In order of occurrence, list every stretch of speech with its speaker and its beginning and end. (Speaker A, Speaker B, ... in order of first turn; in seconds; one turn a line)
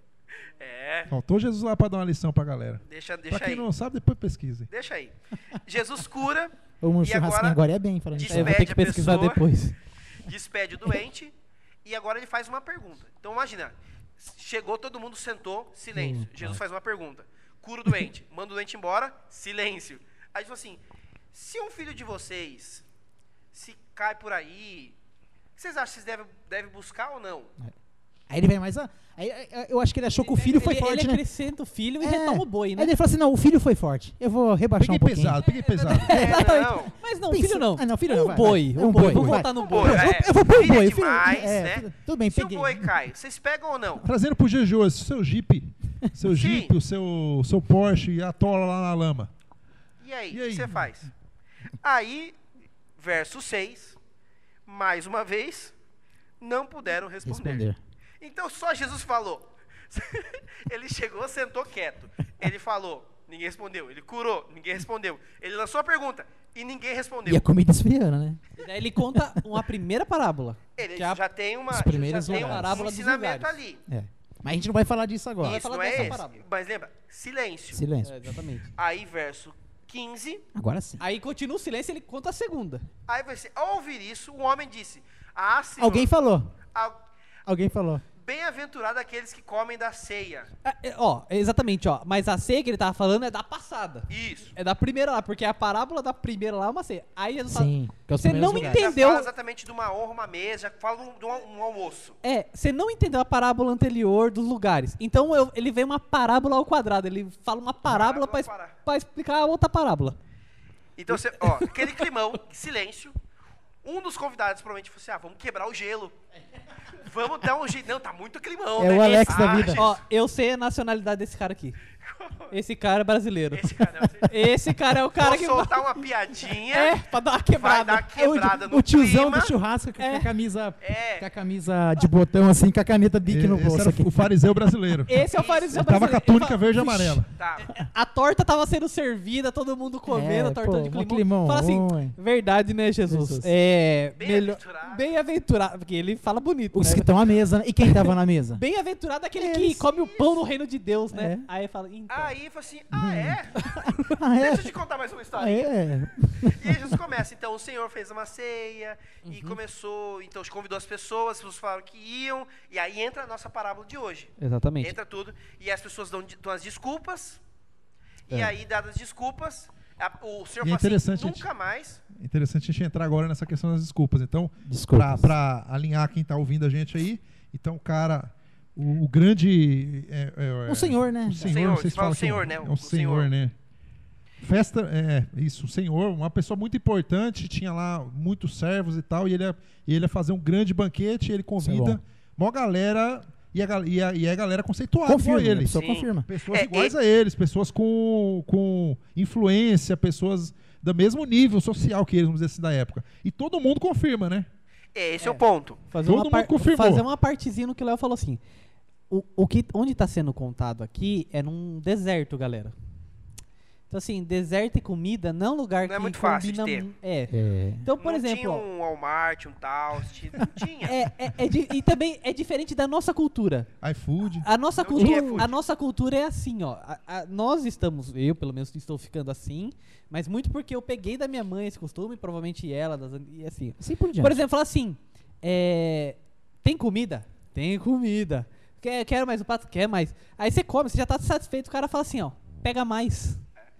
Speaker A: 0.4-1.1
Speaker B: 1.1-4.7
Speaker A: 2.9-3.7
Speaker A: 4.7-7.6
Speaker C: 6.8-8.7
Speaker A: 8.1-9.4
Speaker D: 8.3-9.8
Speaker A: 10.2-11.3
Speaker A: 11.8-20.8
Speaker C: 15.9-16.6
Speaker A: 21.3-22.8
Speaker A: 23.5-24.9
Speaker A: 25.6-27.5
Speaker C: 28.3-31.2
Speaker D: 30.3-32.9
Speaker C: 32.0-35.4
Speaker B: 34.8-36.1
Speaker D: 35.4-40.1
Speaker A: 36.0-37.0
Speaker C: 36.1-36.6
Speaker C: 37.3-42.9
Speaker B: 39.0-39.4
Speaker A: 39.5-44.0
Speaker B: 44.0-49.3
Speaker A: 46.3-46.7
Speaker A: 50.0-51.1
Speaker B: 50.3-50.8
Speaker A: 51.8-52.4
Speaker A: 53.0-54.0
Speaker A: 54.6-55.7
Speaker A: 56.4-57.6
Speaker C: 57.2-57.8
Speaker A: 58.2-67.4
Speaker C: 67.2-68.4
Speaker D: 68.6-71.2
Speaker C: 69.0-69.4
Speaker A: 70.8-73.8
Speaker C: 71.7-72.8
Speaker D: 72.3-73.5
Speaker C: 73.9-76.2
Speaker A: 75.4-77.8
Speaker D: 75.4-76.4
Speaker C: 77.7-78.5
Speaker D: 78.0-78.7
Speaker A: 78.8-80.4
Speaker C: 80.5-81.0
Speaker D: 81.0-82.8
Speaker A: 83.1-86.1
Speaker C: 85.8-86.5
Speaker C: 87.5-88.0
Speaker A: 88.2-90.5
Speaker D: 90.6-99.3
Speaker A: 94.1-94.5
Speaker C: 97.5-98.9
Speaker A: 98.4-102.2
Speaker D: 102.2-110.2
Speaker A: 107.8-108.7
Speaker A: 111.0-113.1
Speaker D: 111.4-112.0
Speaker A: 113.8-116.1
Speaker A: 117.0-120.0
Speaker C: 118.8-119.8
Speaker D: 119.7-121.8
Speaker A: 122.0-122.5
Speaker D: 122.5-123.7
Speaker A: 123.5-124.4
Speaker D: 124.2-126.0
Speaker A: 125.2-127.0
Speaker D: 126.7-128.1
Speaker A: 127.5-129.5
Speaker C: 128.2-134.2
Speaker D: 130.0-130.3
Speaker A: 130.8-131.3
Speaker B: 133.2-137.3
Speaker D: 135.1-147.1
Speaker A: 135.3-135.8
Speaker A: 137.3-137.7
Speaker C: 140.1-142.2
Speaker C: 143.1-143.5
Speaker A: 144.2-145.0
Speaker C: 146.7-148.6
Speaker D: 147.8-152.3
Speaker C: 149.4-149.8
Speaker A: 150.0-150.3
Speaker C: 151.1-151.5
Speaker A: 152.1-153.8
Speaker C: 152.9-153.5
Speaker D: 153.6-154.2
Speaker C: 154.1-154.7
Speaker A: 154.4-167.4
Speaker C: 155.3-156.9
Speaker D: 159.2-159.6
Speaker D: 164.4-164.9
Speaker A: 168.3-172.0
Speaker B: 170.6-171.4
Speaker B: 172.1-183.5
Speaker C: 174.7-175.3
Speaker C: 180.7-181.6
Speaker A: 181.4-183.3
Speaker B: 184.4-204.5
Speaker C: 191.6-192.0
Speaker C: 195.1-196.3
Speaker A: 195.7-196.9
Speaker A: 204.9-205.8
Speaker D: 205.2-208.4
Speaker B: 206.1-207.0
Speaker D: 209.1-212.7
Speaker D: 213.9-218.6
Speaker A: 215.8-216.9
Speaker C: 217.3-217.8
Speaker A: 218.0-220.9
Speaker D: 220.8-223.7
Speaker B: 223.8-224.4
Speaker D: 224.4-243.4
Speaker A: 224.8-225.5
Speaker C: 225.0-225.4
Speaker C: 233.8-234.4